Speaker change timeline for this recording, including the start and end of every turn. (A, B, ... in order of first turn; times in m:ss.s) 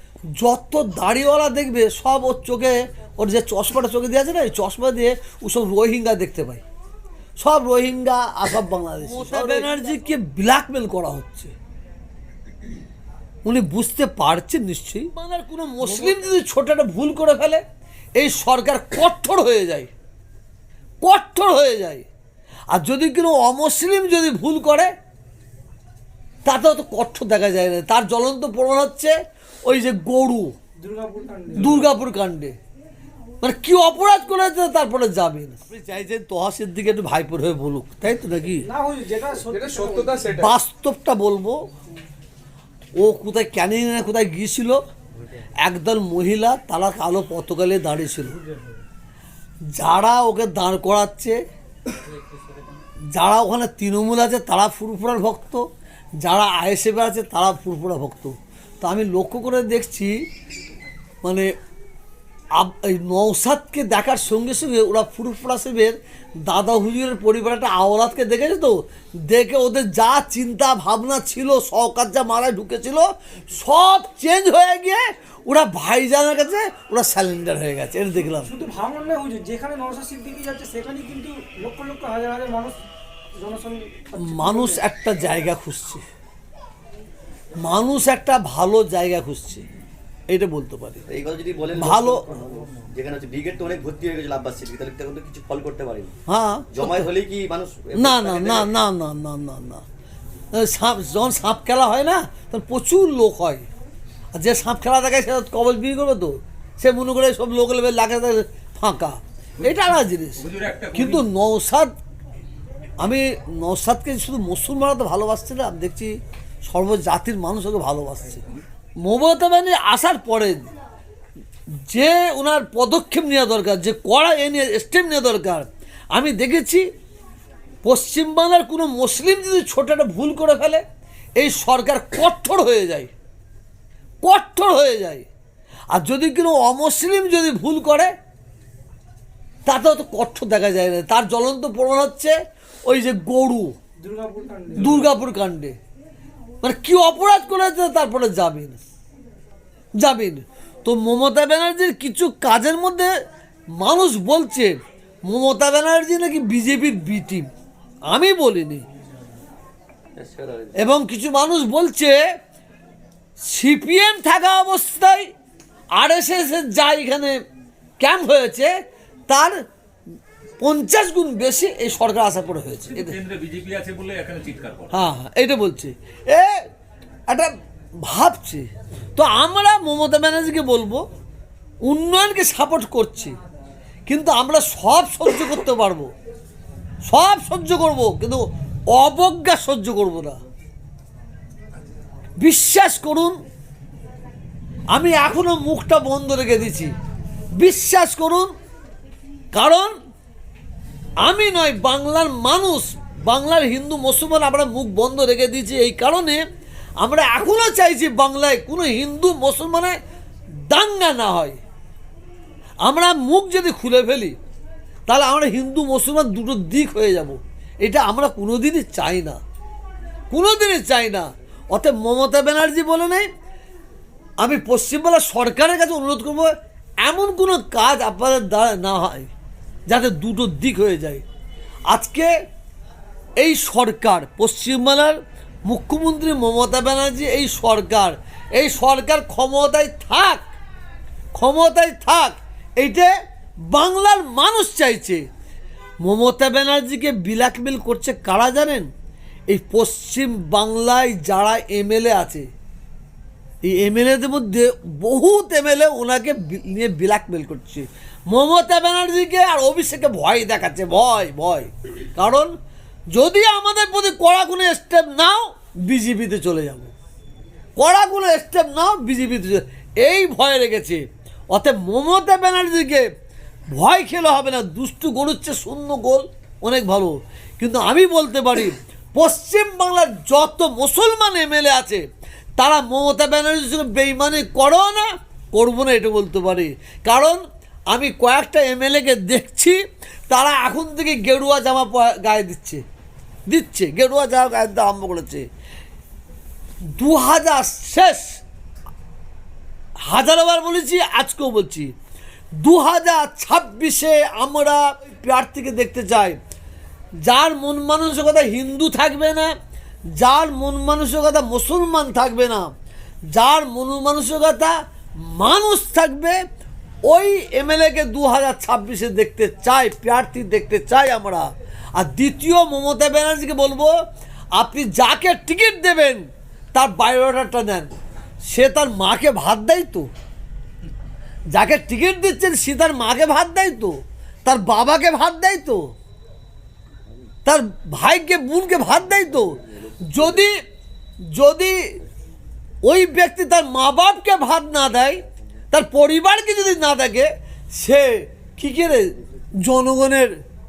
0:00.4-0:06.6 A
0:07.4-0:11.5 A
0:09.3-0:09.7 B
0:13.4-0:17.6 A
0:18.2-0:19.9 A
0:21.0-0:22.1 A
0:22.7-0:24.9 A
0:26.5-0:29.1 A
0:29.7-0:30.6 A
0:30.8-0:31.8 C
0:31.6-0:32.6 A
0:33.4-0:38.7 A
0:38.6-0:40.4 C
0:39.5-0:40.5 B
0:40.2-0:41.6 A
0:43.0-0:44.8 A
0:45.6-0:48.4 A
0:49.7-0:51.4 A
0:53.1-0:55.6 A
0:56.2-1:00.2 A
1:01.2-1:01.5 A
1:02.6-1:18.5 A
1:18.4-1:22.8 C
1:23.4-1:24.8 C
1:24.2-1:26.0 A
1:27.6-1:29.6 A
1:30.3-1:31.0 A
1:31.1-1:36.1 D
1:31.8-1:32.3 A
1:36.3-1:37.1 A
1:36.7-1:38.7 D
1:38.0-1:39.8 A
1:40.6-1:43.7 A
1:44.4-1:51.9 A
1:49.7-1:51.3 B
1:53.0-1:56.2 A
1:56.7-1:58.4 A
1:59.0-2:00.7 A
2:01.9-2:06.9 A
2:07.8-2:10.8 A
2:11.4-2:13.1 A
2:14.2-2:15.3 A
2:15.9-2:18.1 A
2:19.7-2:22.4 A
2:22.9-2:23.8 A
2:24.0-2:25.1 C
2:24.8-2:25.8 A
2:26.6-2:28.8 A
2:30.0-2:33.1 A
2:33.8-2:37.5 A
2:38.1-2:38.8 A
2:40.2-2:40.8 D
2:40.8-2:42.2 A
2:43.4-2:45.3 A
2:46.0-2:47.4 A
2:48.0-2:48.7 A
2:49.3-2:49.6 A
2:50.6-2:53.2 A
2:52.9-2:55.0 B
2:54.9-2:56.6 A
2:57.3-3:01.0 A
3:01.8-3:03.4 A
3:04.1-3:06.1 A
3:07.0-3:10.4 A
3:12.4-3:13.4 A
3:14.9-3:16.9 A
3:17.6-3:18.5 A
3:19.5-3:20.0 A
3:21.2-3:26.4 A
3:27.0-3:30.0 A
3:30.6-3:31.6 A
3:32.8-3:34.4 A
3:35.1-3:39.4 A
3:40.3-3:43.3 A
3:44.4-3:46.5 A
3:47.0-3:49.3 A
3:49.9-3:51.2 A
3:51.9-3:52.3 A
3:53.4-4:00.5 A
4:01.4-4:03.1 A
4:03.7-4:05.2 A
4:06.0-4:08.9 A
4:09.5-4:12.5 A
4:13.6-4:22.5 A
4:23.1-4:26.9 A
4:27.8-4:33.1 A
4:33.7-4:42.0 A
4:42.6-4:52.8 A
4:53.5-4:55.5 A
4:56.9-4:58.4 A
5:00.1-5:01.9 A
5:02.6-5:06.4 A
5:07.2-5:09.5 A
5:10.1-5:12.7 A
5:13.3-5:16.4 A
5:17.1-5:23.9 A
5:24.6-5:27.9 A
5:28.5-5:30.1 A
5:31.5-5:35.9 A
5:37.4-5:40.5 A
5:41.3-5:42.0 A
5:42.9-5:45.2 A
5:45.7-5:49.1 A
5:49.6-5:50.4 A